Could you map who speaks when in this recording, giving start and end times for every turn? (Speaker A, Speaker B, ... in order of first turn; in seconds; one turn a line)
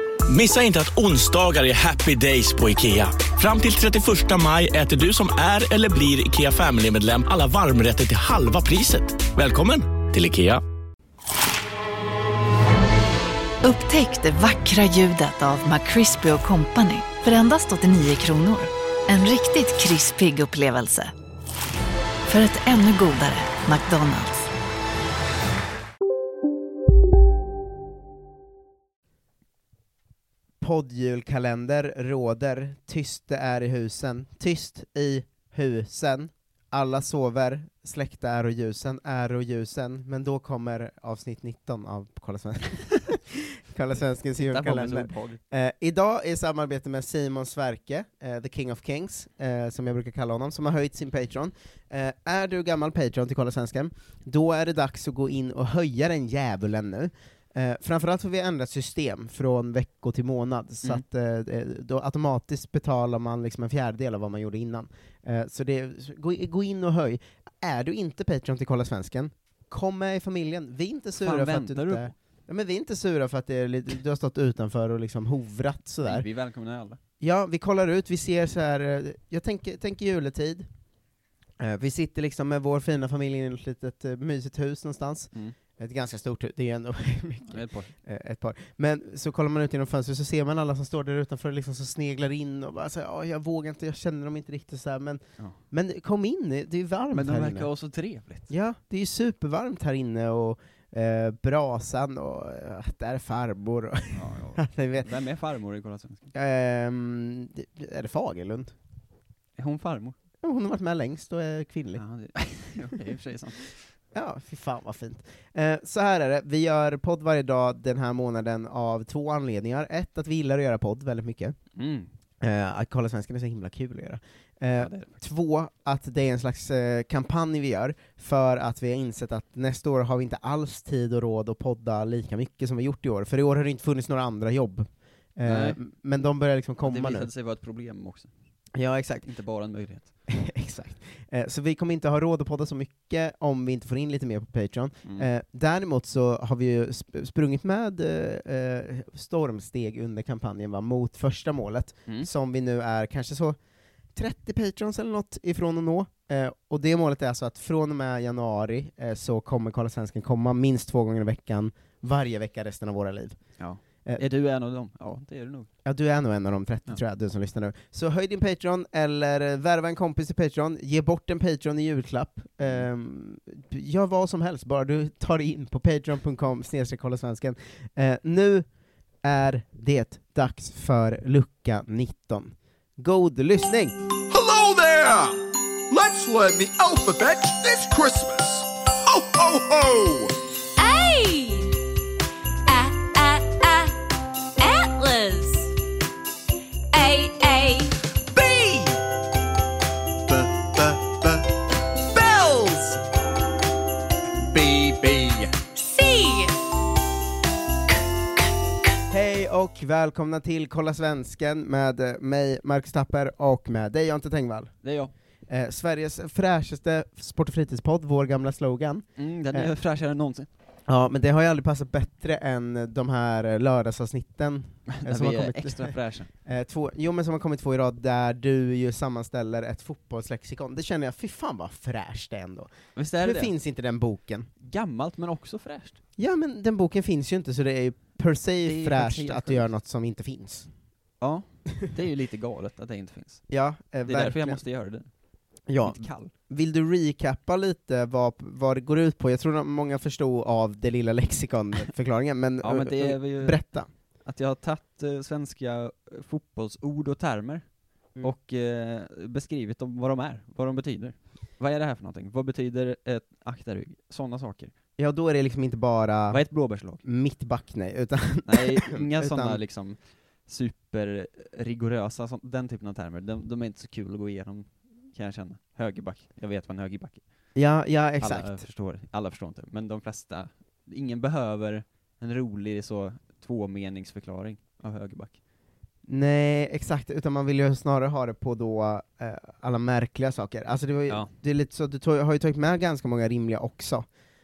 Speaker A: 0.3-10.6
Speaker B: 13.6-21.1
Speaker B: 22.3-24.5
Speaker C: 30.6-76.3
Speaker D: 44.4-45.4
Speaker D: 71.2-72.1
Speaker D: 76.0-77.0
Speaker C: 77.2-80.7
Speaker C: 81.6-97.7
Speaker D: 87.5-87.9
Speaker D: 97.1-98.5
Speaker C: 98.5-105.1
Speaker D: 104.1-106.3
Speaker C: 106.3-108.7
Speaker D: 109.6-110.2
Speaker C: 110.4-112.0
Speaker D: 112.0-113.8
Speaker C: 114.1-121.6
Speaker D: 121.8-122.1
Speaker C: 122.4-137.3
Speaker D: 124.8-125.1
Speaker D: 135.4-135.8
Speaker D: 136.8-138.3
Speaker C: 138.7-139.3
Speaker D: 139.2-140.1
Speaker C: 140.3-153.6
Speaker C: 154.2-163.4
Speaker D: 163.6-165.7
Speaker C: 165.8-178.7
Speaker C: 179.2-183.9
Speaker E: 184.3-185.4
Speaker E: 185.9-190.3
Speaker F: 190.8-191.7
Speaker F: 192.7-193.9
Speaker F: 194.6-195.7
Speaker F: 196.9-197.9
Speaker E: 198.3-199.0
Speaker E: 200.3-201.1
Speaker E: 202.2-203.0
Speaker E: 204.5-205.5
Speaker F: 205.8-206.5
Speaker C: 209.1-214.7
Speaker D: 214.8-215.1
Speaker C: 215.5-219.7
Speaker D: 219.2-220.5
Speaker C: 220.9-234.5
Speaker D: 224.9-226.3
Speaker D: 233.0-233.5
Speaker D: 234.6-236.0
Speaker C: 236.2-240.7
Speaker D: 238.6-239.7
Speaker D: 241.2-243.4
Speaker C: 243.5-244.6
Speaker D: 244.0-245.1
Speaker C: 245.7-253.9
Speaker D: 245.8-246.3
Speaker D: 252.6-253.6
Speaker D: 254.2-264.7
Speaker C: 265.0-266.4
Speaker D: 266.3-267.0
Speaker C: 267.0-269.6
Speaker D: 268.4-277.2
Speaker C: 277.6-278.6
Speaker D: 278.2-285.4
Speaker C: 286.1-294.1